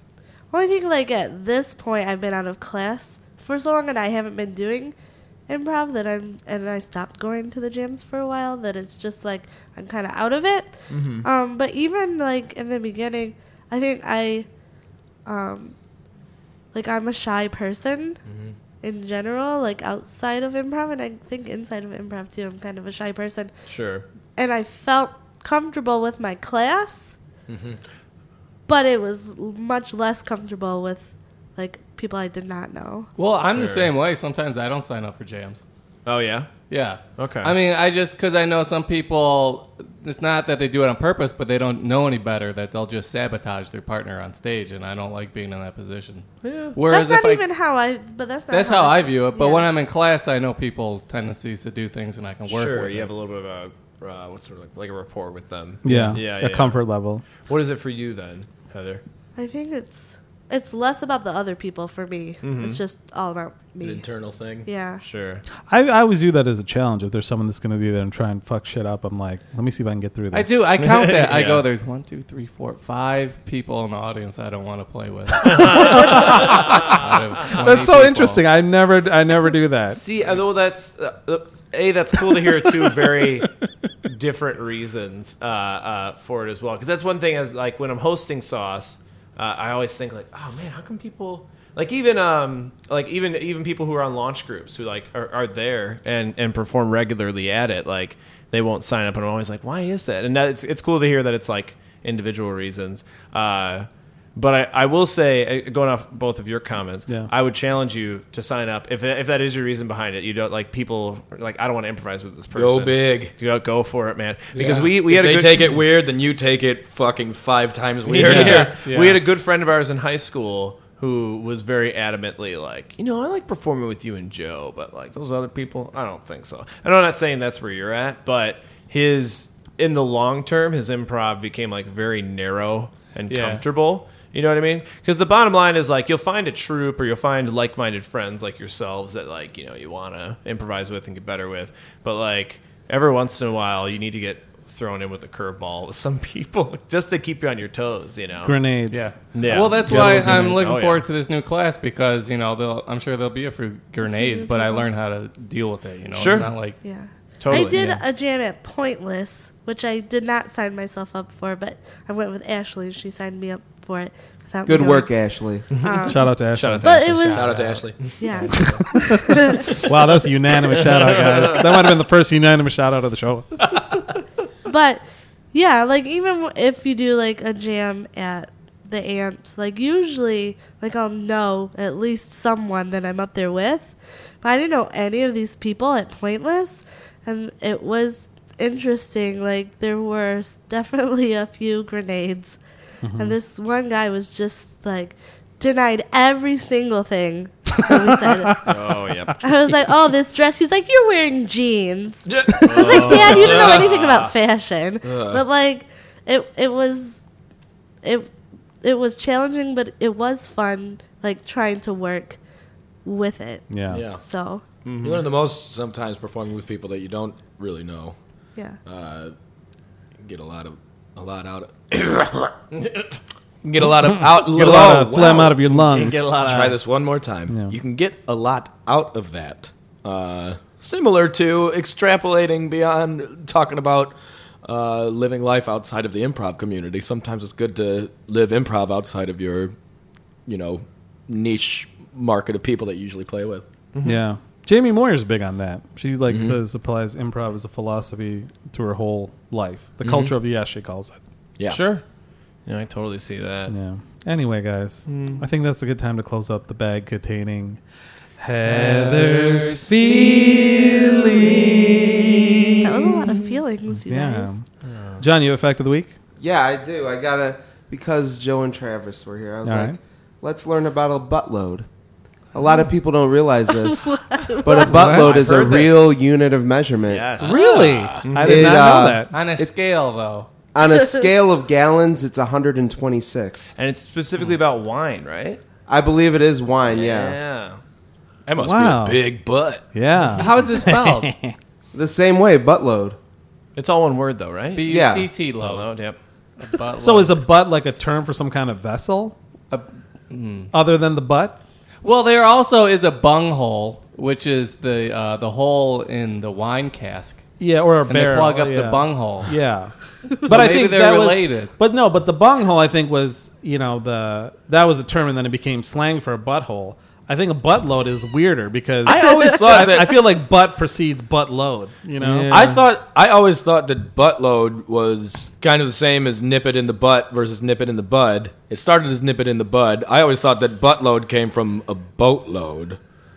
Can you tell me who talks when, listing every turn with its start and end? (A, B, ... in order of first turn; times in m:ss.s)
0:00.5-0:04.9 A
0:05.5-0:14.5 A
0:10.9-0:11.2 B
0:15.2-0:15.7 A
0:16.7-0:18.2 A
0:18.3-0:18.5 C
0:18.8-0:23.5 A
0:23.7-0:24.0 B
0:24.4-0:27.2 A
0:27.5-0:27.8 C
0:28.7-0:33.1 A
0:33.2-0:35.6 D
0:33.5-0:33.9 B
0:36.0-0:36.5 B
0:36.7-0:47.4 D
0:37.2-0:37.5 B
0:46.4-0:46.8 B
0:46.9-0:49.7 A
0:48.5-0:53.1 D
0:52.5-0:56.8 B
0:55.8-0:57.2 E
0:55.9-0:56.2 D
0:57.4-0:59.0 B
0:59.4-1:04.0 A
1:02.4-1:02.8 B
1:03.8-1:04.7 C
1:04.6-1:05.0 A
1:05.0-1:05.4 B
1:05.7-1:10.6 E
1:10.3-1:18.4 D
1:10.8-1:11.6 B
1:15.4-1:17.0 B
1:15.6-1:17.0 E
1:17.5-1:20.0 E
1:19.9-1:23.5 B
1:24.0-1:55.8 B
1:52.5-1:53.3 C
1:54.6-1:54.9 D
1:54.6-1:58.7 C
1:58.0-2:28.6 B
1:58.1-1:59.2 D
1:58.2-1:58.7 E
2:13.3-2:13.6 D
2:28.4-2:30.7 E
2:28.9-2:36.8 D
2:29.3-2:31.0 B
2:34.2-2:34.8 A
2:36.1-2:36.5 B
2:36.8-2:45.1 A
2:37.4-2:38.0 B
2:37.7-2:38.0 D
2:44.6-2:45.8 F
2:45.7-2:48.7 B
2:45.7-2:47.5 A
2:46.0-2:47.2 E
2:47.1-2:48.8 D
2:47.3-2:48.1 C
2:48.2-2:49.8 A
2:48.5-2:53.6 E
2:54.6-3:12.6 A
3:13.0-3:13.4 E
3:13.2-3:18.7 A
3:17.8-3:18.6 E
3:18.6-3:19.4 B
3:19.4-3:27.2 A
3:22.3-3:23.9 C
3:22.6-3:24.3 B
3:25.0-3:25.4 C
3:28.0-3:32.4 A
3:33.0-3:34.6 A
3:33.7-3:34.0 E
3:33.9-3:34.2 C
3:34.8-3:35.3 B
3:35.0-3:38.2 C
3:38.8-3:39.3 C
3:40.2-3:42.6 C
3:42.7-3:43.2 B
3:43.6-3:45.6 C
3:43.8-3:46.8 E
3:45.6-3:46.8 B
3:46.4-3:59.7 C
3:47.5-3:47.7 E
4:00.4-4:03.6 C
4:03.9-4:04.2 B
4:04.0-4:11.2 E
4:06.3-4:06.6 C
4:10.0-4:10.3 C
4:11.6-4:11.8 C
4:11.7-4:12.0 B
4:12.6-4:13.7 B
4:13.7-4:17.8 E
4:15.1-4:15.4 B
4:18.4-4:21.6 E
4:18.7-4:19.9 D
4:19.4-4:19.9 B
4:22.8-4:24.5 A
4:23.9-4:24.6 E
4:24.9-4:25.2 B
4:25.2-4:26.2 E
4:26.4-4:31.9 F
4:29.6-4:30.0 E
4:32.5-4:37.4 F
4:33.9-4:34.9 A
4:34.8-4:36.0 B
4:34.9-4:35.3 E
4:37.1-4:37.7 B
4:37.4-4:39.3 E
4:37.4-4:38.3 C
4:38.2-4:38.8 B
4:38.4-4:39.7 F
4:38.8-4:40.5 D
4:40.7-4:43.7 F
4:43.8-4:45.6 B
4:45.9-4:47.4 F
4:46.9-4:47.8 B
4:48.4-4:49.8 C
4:48.6-4:49.2 E
4:49.9-4:51.6 E
4:50.3-4:51.3 D
4:51.9-4:53.2 F
4:53.8-4:54.9 B
4:54.7-4:55.9 D
4:54.9-4:55.3 F
4:55.5-4:56.2 B
4:56.6-4:57.4 D
4:57.0-4:59.4 E
4:59.7-5:00.7 D
5:00.7-5:01.6 E
5:02.0-5:07.4 D
5:07.6-5:22.8 E
5:08.0-5:09.5 D
5:10.4-5:11.7 D
5:19.0-5:20.2 C
5:22.2-5:33.0 C